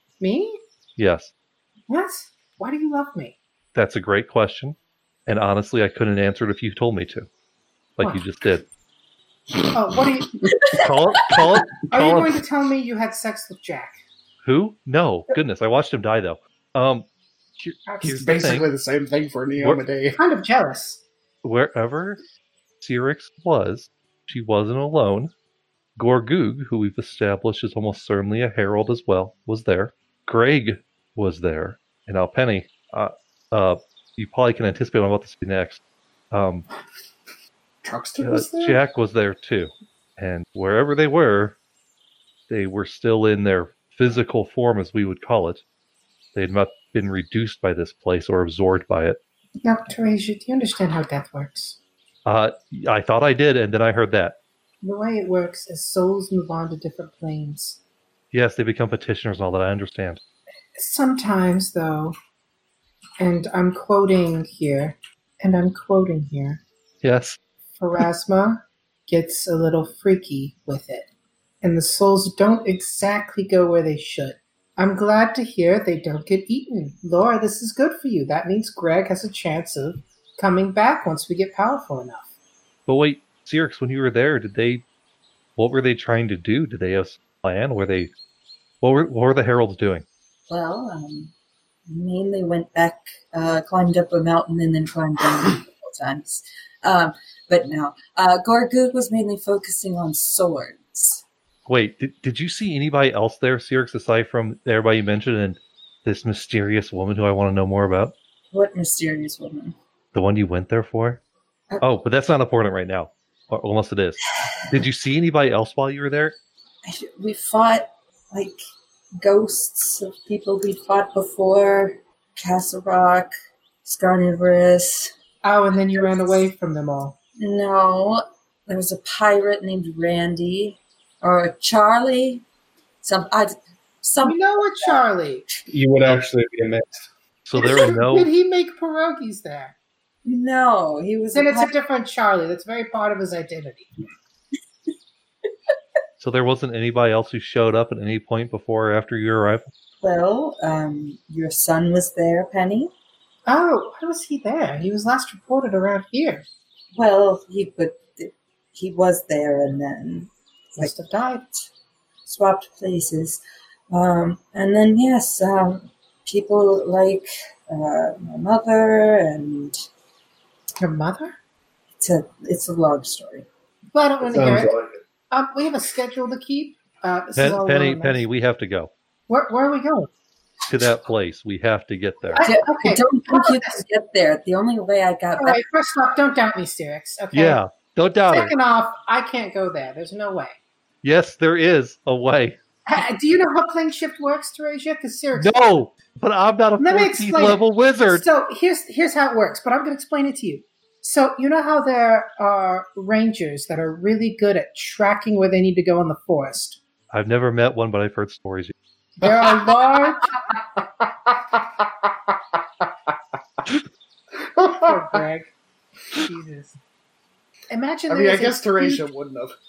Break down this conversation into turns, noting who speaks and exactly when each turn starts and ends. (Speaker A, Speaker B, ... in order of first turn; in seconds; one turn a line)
Speaker A: 0.2-0.6
Speaker B: 1.0-1.3
Speaker A: 1.9-3.4
Speaker B: 3.7-7.3
Speaker B: 8.0-8.7
Speaker A: 9.7-10.8
Speaker B: 10.8-12.3
Speaker A: 11.9-14.0
Speaker B: 14.4-17.1
Speaker B: 17.6-18.7
Speaker C: 18.0-20.2
Speaker A: 20.2-21.0
Speaker B: 21.4-22.2
Speaker B: 22.8-25.3
Speaker B: 25.9-36.7
Speaker C: 37.8-38.8
Speaker B: 38.2-41.5
Speaker B: 42.5-45.6
Speaker B: 46.3-49.2
Speaker A: 49.6-51.8
Speaker B: 52.2-54.4
Speaker A: 54.8-57.8
Speaker B: 58.3-60.2
Speaker A: 60.8-62.1
Speaker A: 63.2-66.6
Speaker B: 67.0-67.4
Speaker A: 67.8-71.1
Speaker A: 71.6-82.3
Speaker B: 82.9-84.8
Speaker B: 85.6-88.1
Speaker B: 88.8-90.0
Speaker D: 90.5-91.3
Speaker D: 91.9-101.2
Speaker B: 101.7-108.1
Speaker D: 108.5-109.8
Speaker B: 110.1-111.2
Speaker B: 111.8-116.3
Speaker D: 116.8-118.6
Speaker D: 119.2-123.3
Speaker D: 123.8-125.1
Speaker A: 125.4-127.2
Speaker D: 127.4-132.4
Speaker D: 133.0-135.0
Speaker A: 134.2-135.4
Speaker E: 135.7-137.0
Speaker B: 137.4-138.3
Speaker A: 137.6-139.7
Speaker D: 140.2-141.7
Speaker A: 141.3-143.9
Speaker B: 146.2-149.7
Speaker D: 150.0-152.9
Speaker A: 153.4-156.4
Speaker D: 156.9-160.9
Speaker A: 160.8-161.5
Speaker D: 162.2-169.7
Speaker A: 170.8-171.3
Speaker D: 172.0-173.4
Speaker A: 173.9-174.7
Speaker E: 174.2-175.0
Speaker A: 175.3-178.2
Speaker B: 177.3-178.9
Speaker A: 179.3-180.1
Speaker B: 180.7-182.4
Speaker A: 182.3-183.8
Speaker D: 182.4-185.6
Speaker A: 185.4-187.6
Speaker B: 187.3-188.5
Speaker A: 188.3-190.6
Speaker B: 191.0-192.6
Speaker A: 192.9-195.7
Speaker B: 195.3-198.2
Speaker A: 196.8-206.8
Speaker B: 207.1-208.7
Speaker A: 209.2-210.4
Speaker C: 209.2-209.7
Speaker C: 214.5-215.2
Speaker A: 214.8-215.5
Speaker A: 216.1-216.8
Speaker A: 217.7-219.1
Speaker C: 218.1-219.6